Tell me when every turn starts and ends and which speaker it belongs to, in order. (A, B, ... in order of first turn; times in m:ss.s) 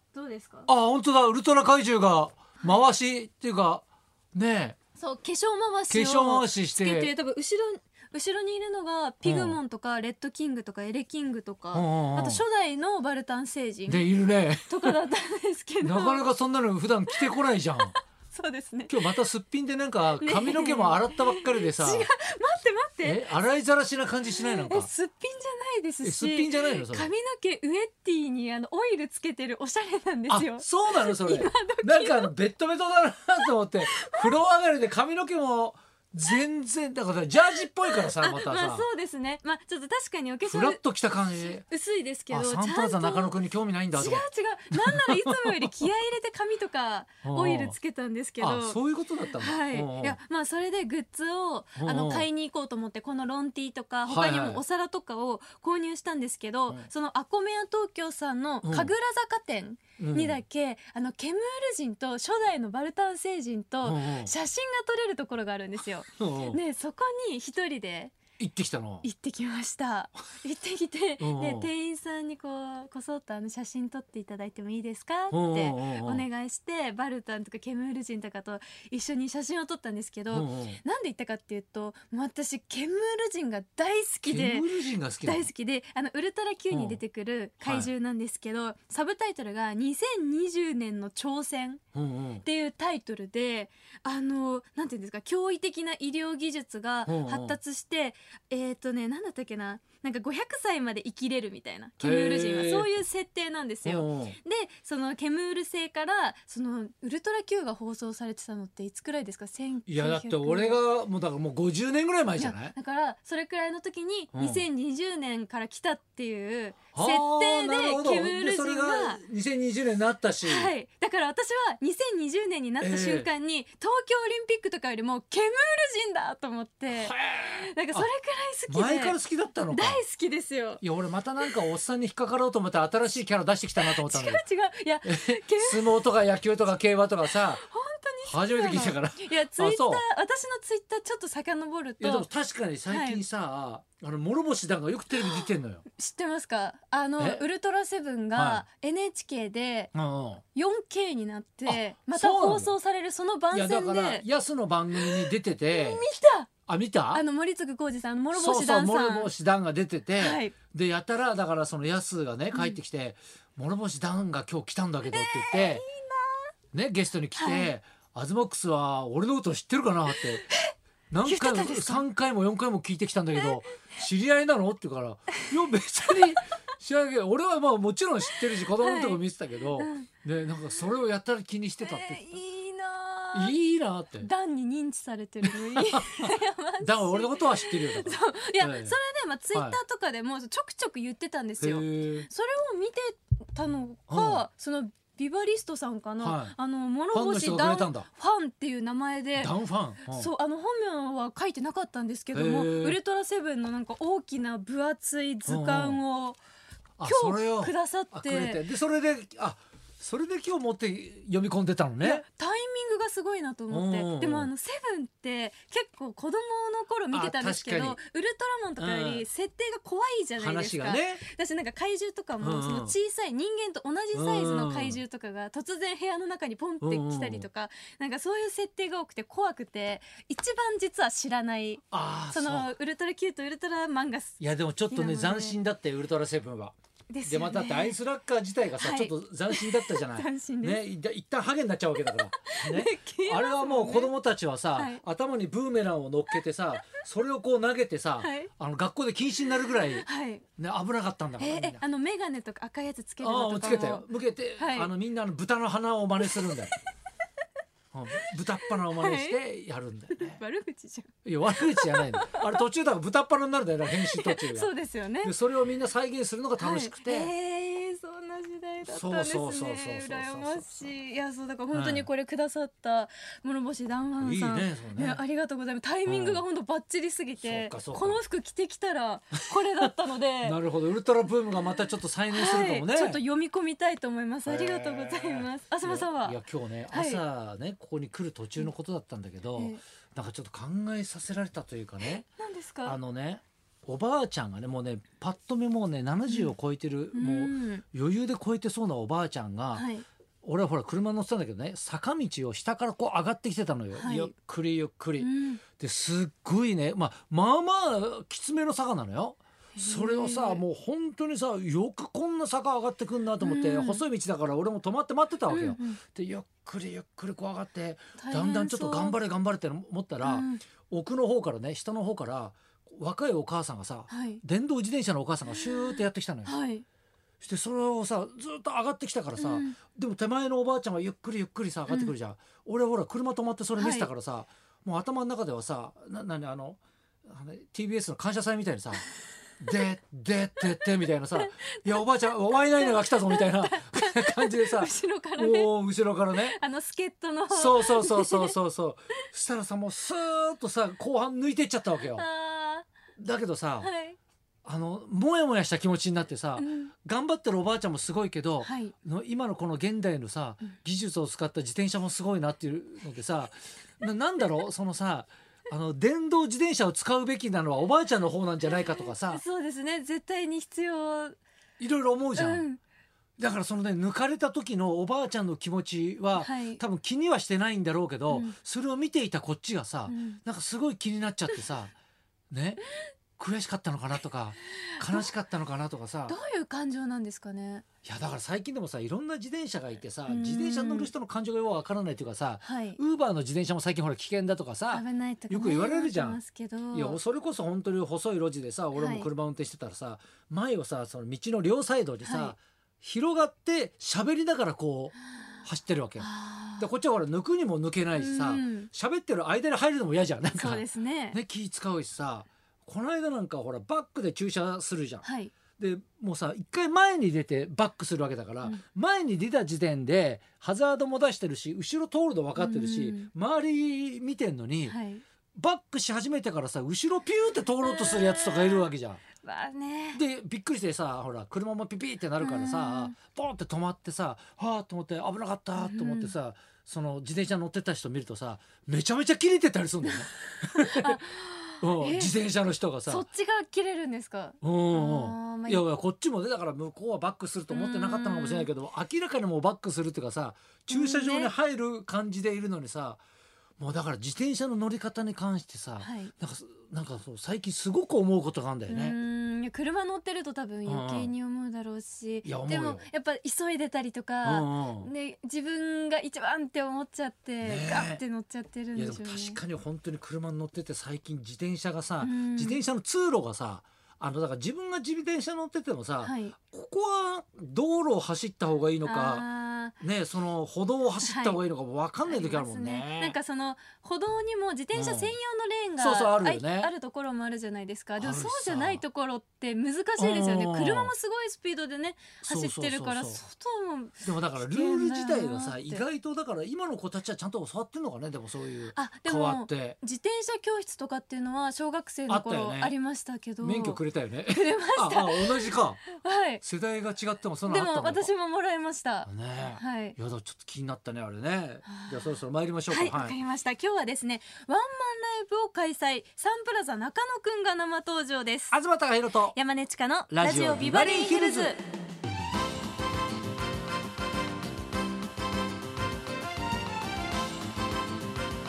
0:00.1-0:00.7 A
0:00.7-0:04.8 B
0:05.0-0:14.0 A
0:05.9-0:07.1 B
0:09.2-0:09.6 B
0:11.7-0:12.4 B
0:13.9-0:15.0 B
0:14.7-0:16.2 A
0:15.8-0:18.0 B
0:17.8-0:19.1 A
0:18.9-0:22.1 B
0:20.2-0:23.2 A
0:23.0-0:24.9 B
0:24.3-0:32.3 A
0:26.0-0:27.1 B
0:30.3-0:38.8 B
0:33.4-0:34.3 A
0:37.4-0:40.8 A
0:40.4-0:41.6 B
0:41.4-0:43.3 A
0:42.3-0:45.6 B
0:43.9-1:08.1 A
0:47.2-0:47.8 B
0:48.4-0:50.2 B
0:51.8-0:52.2 B
0:54.0-0:54.6 B
0:58.6-0:58.9 B
1:00.0-1:00.4 B
1:03.8-1:04.3 B
1:06.2-1:06.6 B
1:08.4-1:09.1 B
1:09.0-1:31.8 A
1:11.2-1:11.7 B
1:15.3-1:16.2 B
1:20.3-1:20.8 B
1:24.2-1:25.5 B
1:26.7-1:27.0 B
1:27.6-1:27.9 B
1:31.9-1:32.4 B
1:32.4-1:50.8 A
1:37.0-1:37.6 B
1:42.0-1:42.9 B
1:43.8-1:44.4 B
1:49.8-1:52.7 B
1:52.4-1:59.2 A
1:54.3-1:54.6 B
1:56.9-2:00.7 B
2:00.4-2:09.2 A
2:02.8-2:03.3 B
2:06.9-2:08.1 B
2:08.7-2:10.0 B
2:09.7-2:10.8 A
2:10.8-2:14.4 B
2:13.8-2:16.0 A
2:15.0-2:17.6 B
2:17.3-2:22.3 A
2:18.2-2:20.0 B
2:22.0-2:25.8 B
2:22.9-2:23.2 A
2:25.2-2:25.4 A
2:26.0-2:29.9 A
2:27.2-2:27.4 B
2:28.3-2:28.6 B
2:29.9-2:30.4 B
2:30.5-2:34.2 A
2:31.6-2:32.7 B
2:33.5-2:36.0 B
2:34.9-2:36.5 A
2:36.6-2:37.2 B
2:37.1-2:39.3 A
2:38.3-2:45.8 B
2:40.2-2:40.5 A
2:42.5-2:42.8 A
2:45.1-2:46.5 A
2:46.7-2:50.5 B
2:47.4-2:47.7 A
2:50.4-2:50.7 A
2:51.1-3:02.4 B
2:51.2-2:52.0 A
2:58.8-2:59.2 A
2:59.8-3:00.1 A
3:01.8-3:03.6 A
3:03.3-3:04.3 B
3:04.2-3:26.4 A
3:05.4-3:09.0 B
3:09.5-3:09.8 B
3:11.6-3:12.3 B
3:14.1-3:14.4 B
3:16.2-3:16.5 B
3:17.1-3:18.1 B
3:19.4-3:20.3 B
3:22.3-3:23.0 B
3:25.5-3:26.0 B
3:27.0-3:32.2 B
3:27.0-3:28.6 A
3:32.0-3:55.6 A
3:33.7-3:34.5 B
3:37.1-3:38.0 B
3:38.8-3:39.3 B
3:40.4-3:41.2 B
3:42.4-3:42.9 B
3:44.1-3:45.0 B
3:46.8-3:47.5 B
3:51.9-3:52.7 B
3:54.4-4:10.0 B
3:57.1-3:58.0 A
3:58.8-4:00.8 A
4:02.3-4:04.2 A
4:04.7-4:05.0 A
4:08.2-4:08.5 A
4:09.9-4:10.4 A
4:10.6-4:11.8 B
4:11.4-4:14.9 A
4:13.2-4:16.7 B
4:16.2-4:16.7 A
4:17.9-4:20.4 B
4:18.6-4:19.4 A
4:20.1-4:22.6 A
4:21.2-4:24.7 B
4:23.9-4:25.3 A
4:25.2-4:27.3 B
4:26.6-4:40.6 A
4:28.8-4:30.6 B
4:31.7-4:32.0 B
4:34.2-4:35.2 B
4:36.0-4:36.4 B
4:37.4-4:38.2 B
4:40.4-4:43.2 B
4:42.3-4:46.4 A
4:44.4-4:52.2 B
4:46.9-4:47.2 A
4:49.5-4:49.8 A
4:52.0-4:53.0 A
4:52.8-4:59.9 B
4:56.3-4:56.5 A
4:57.1-4:57.8 A
4:59.7-5:00.0 A
5:00.4-5:26.5 B
5:03.9-5:04.3 A
5:05.2-5:05.6 A
5:09.8-5:10.6 A
5:13.4-5:14.0 A
5:15.5-5:16.0 A
5:18.2-5:19.1 A
5:20.2-5:20.6 A
5:24.1-5:24.4 A
5:25.6-5:26.8 A
5:27.4-5:39.1 B
5:29.4-5:29.8 A
5:31.9-5:32.1 A
5:33.8-5:34.1 A
5:39.6-5:46.6 B
5:41.4-5:45.8 A
5:46.3-5:48.5 A
5:47.5-5:52.2 B
5:52.1-5:52.9 A
5:53.2-5:53.9 B
5:53.8-5:54.2 A
5:54.6-6:09.4 B
5:56.6-5:56.9 A
5:58.6-5:58.9 A
6:09.2-6:11.4 A
6:11.8-6:12.6 B
6:12.3-6:12.8 A
6:13.4-6:21.9 B
6:16.3-6:16.8 A
6:18.3-6:18.5 A
6:20.1-6:20.4 A
6:22.5-6:22.8 B
6:23.4-6:26.4 B
6:25.0-6:25.2 A
6:26.3-6:27.8 A
6:28.0-6:36.4 B
6:30.2-6:31.1 A
6:32.6-6:33.0 A
6:34.9-6:37.2 A
6:36.9-7:05.0 B
6:38.9-6:39.3 A
6:42.2-6:42.5 A
6:46.2-6:46.9 A
6:48.1-6:48.9 A
6:50.6-6:51.4 A
6:55.2-6:55.5 A
7:02.6-7:03.3 A
7:04.9-7:05.2 A
7:05.6-7:09.2 B
7:07.8-7:08.9 A
7:09.4-7:10.2 A
7:10.1-7:21.2 B
7:12.4-7:13.1 A
7:15.8-7:16.3 A
7:20.7-7:22.3 A
7:21.8-7:23.2 B
7:23.1-7:25.8 A
7:24.6-7:33.2 B
7:27.7-7:28.7 A
7:30.9-7:31.5 A
7:33.8-7:39.2 B
7:36.0-7:36.3 A
7:38.9-7:49.6 A
7:40.8-7:41.3 B
7:42.4-7:43.0 B
7:44.4-7:45.1 B
7:47.6-7:48.2 B
7:48.9-7:59.5 B
7:52.2-7:52.8 A
7:56.2-7:56.6 A
7:59.0-8:00.0 A
8:00.0-8:03.4 B
8:01.2-8:01.6 A
8:02.2-8:16.0 A
8:04.9-8:05.3 B
8:06.0-8:06.9 B
8:08.2-8:09.0 B
8:10.2-8:11.1 B
8:12.4-8:13.4 B
8:14.2-8:20.0 B
8:18.9-8:26.6 A
8:22.3-8:22.9 B
8:23.6-8:26.1 B
8:26.6-8:28.3 B
8:27.6-8:30.2 A
8:29.2-8:33.4 B
8:31.8-8:32.4 A
8:32.9-8:38.8 A
8:38.7-8:39.6 B
8:39.5-8:41.8 A
8:40.3-8:41.7 B